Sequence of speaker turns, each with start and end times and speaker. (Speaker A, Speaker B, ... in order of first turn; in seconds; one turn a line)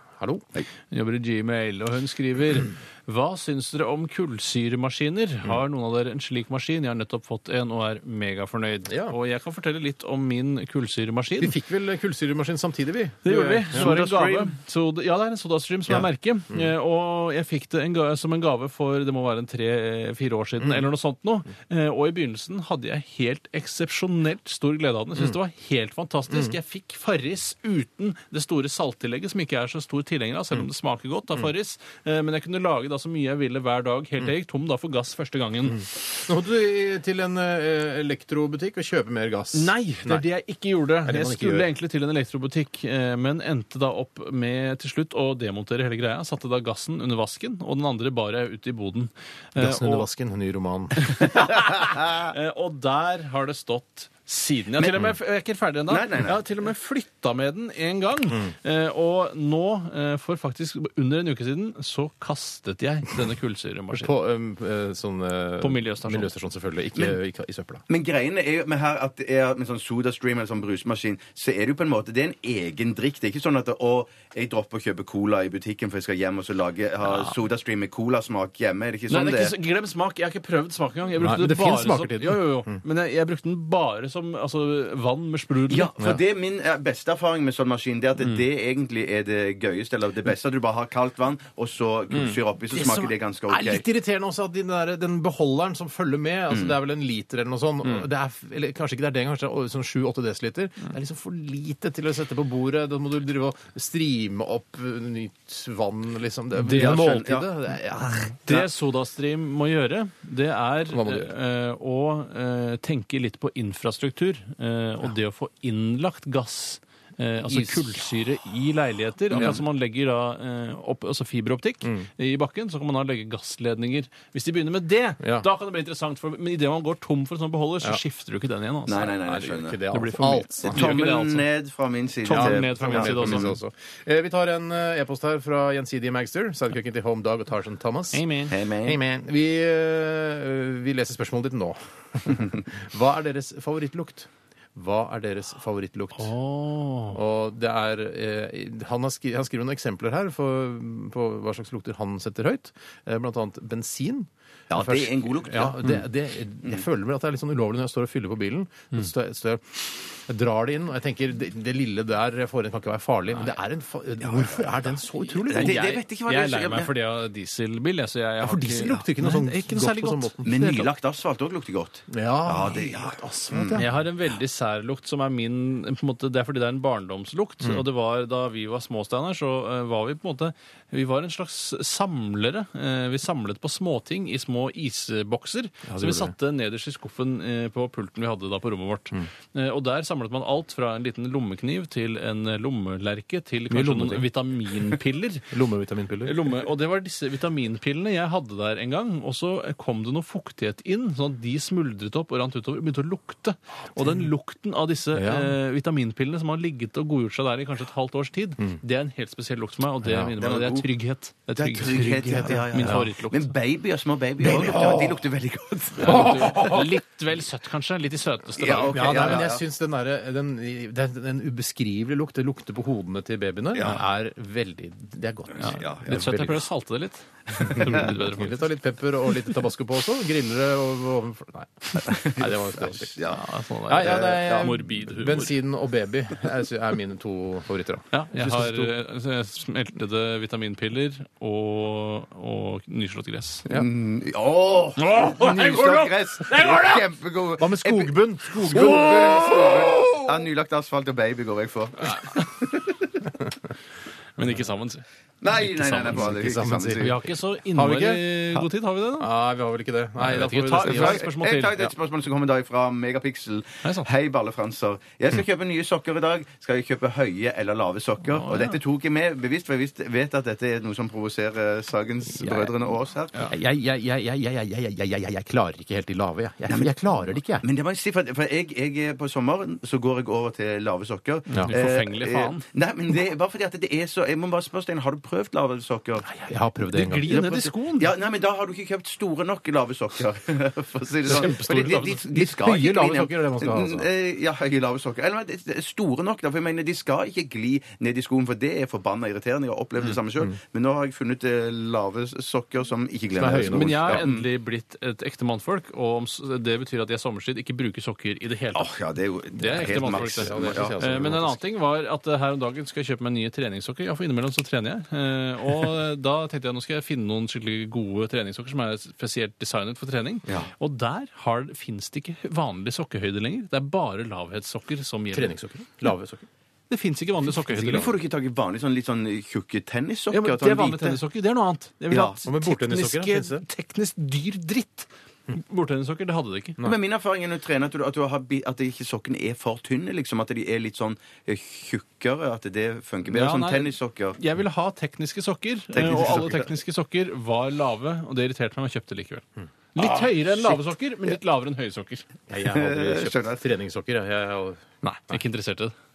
Speaker A: 0.2-0.5
Speaker B: 0.9-11.5
Speaker A: 8.9-9.1
Speaker A: 11.4-14.0
Speaker B: 13.2-35.9
Speaker C: 13.7-14.5
Speaker A: 15.9-16.7
Speaker A: 36.2-40.2
Speaker B: 39.5-50.1
Speaker A: 41.0-41.7
Speaker A: 49.6-51.4
Speaker B: 51.0-64.1
Speaker C: 54.8-55.1
Speaker C: 55.9-56.4
Speaker A: 63.9-67.8
Speaker B: 65.6-66.3
Speaker C: 67.9-79.5
Speaker B: 79.1-85.9
Speaker A: 81.2-82.8
Speaker C: 85.7-93.8
Speaker A: 92.7-108.7
Speaker C: 96.5-96.8
Speaker C: 106.6-107.5
Speaker B: 108.5-131.5
Speaker A: 110.9-111.3
Speaker A: 117.5-117.9
Speaker A: 119.3-119.6
Speaker A: 125.2-125.5
Speaker C: 128.9-129.8
Speaker A: 129.3-130.9
Speaker C: 130.6-133.5
Speaker B: 132.2-133.5
Speaker A: 132.3-138.2
Speaker B: 138.1-138.6
Speaker C: 138.5-139.0
Speaker A: 138.8-146.3
Speaker B: 146.2-147.2
Speaker A: 147.1-165.9
Speaker C: 154.7-155.9
Speaker C: 164.2-164.7
Speaker C: 165.5-166.9
Speaker B: 165.5-170.9
Speaker A: 168.4-170.6
Speaker C: 170.4-173.9
Speaker A: 172.1-174.0
Speaker B: 173.8-195.5
Speaker A: 185.9-186.3
Speaker A: 193.7-194.3
Speaker A: 195.5-196.4
Speaker B: 196.2-213.5
Speaker A: 205.1-205.6
Speaker A: 210.0-210.3
Speaker C: 210.4-210.9
Speaker C: 211.6-216.8
Speaker A: 212.5-213.1
Speaker A: 214.4-215.2
Speaker B: 216.0-219.4
Speaker A: 216.0-216.9
Speaker C: 218.6-219.6
Speaker A: 218.8-226.7
Speaker C: 223.8-224.0
Speaker B: 225.6-228.6
Speaker C: 225.8-226.2
Speaker A: 227.7-233.3
Speaker C: 232.1-233.4
Speaker B: 233.3-235.6
Speaker A: 233.9-238.9
Speaker C: 234.0-234.8
Speaker B: 238.1-243.7
Speaker C: 243.7-253.0
Speaker A: 245.0-247.1
Speaker A: 247.6-250.3
Speaker B: 252.0-252.5
Speaker B: 254.4-256.4
Speaker C: 255.4-257.1
Speaker A: 256.1-258.7
Speaker B: 257.0-259.3
Speaker A: 259.2-261.2
Speaker B: 260.2-261.9
Speaker C: 260.8-273.5
Speaker B: 263.8-264.1
Speaker B: 268.3-268.8
Speaker A: 272.3-272.7
Speaker A: 273.5-277.6
Speaker C: 276.7-276.9
Speaker C: 277.6-286.3
Speaker B: 281.6-282.6
Speaker A: 286.3-287.5
Speaker B: 286.9-288.1
Speaker C: 287.3-304.4
Speaker B: 291.2-292.2
Speaker A: 291.3-294.1
Speaker A: 303.4-304.3
Speaker B: 303.7-308.9
Speaker C: 308.8-311.0
Speaker B: 309.5-325.6
Speaker A: 309.7-311.6
Speaker A: 325.3-326.5
Speaker B: 326.9-328.1
Speaker A: 327.7-328.1
Speaker C: 327.7-331.2
Speaker B: 330.3-336.8
Speaker C: 332.1-332.4
Speaker A: 332.4-333.6
Speaker C: 336.8-344.4
Speaker B: 343.3-352.3
Speaker C: 345.9-346.7
Speaker C: 350.1-350.6
Speaker A: 352.5-355.4
Speaker C: 352.6-353.6
Speaker B: 355.0-355.9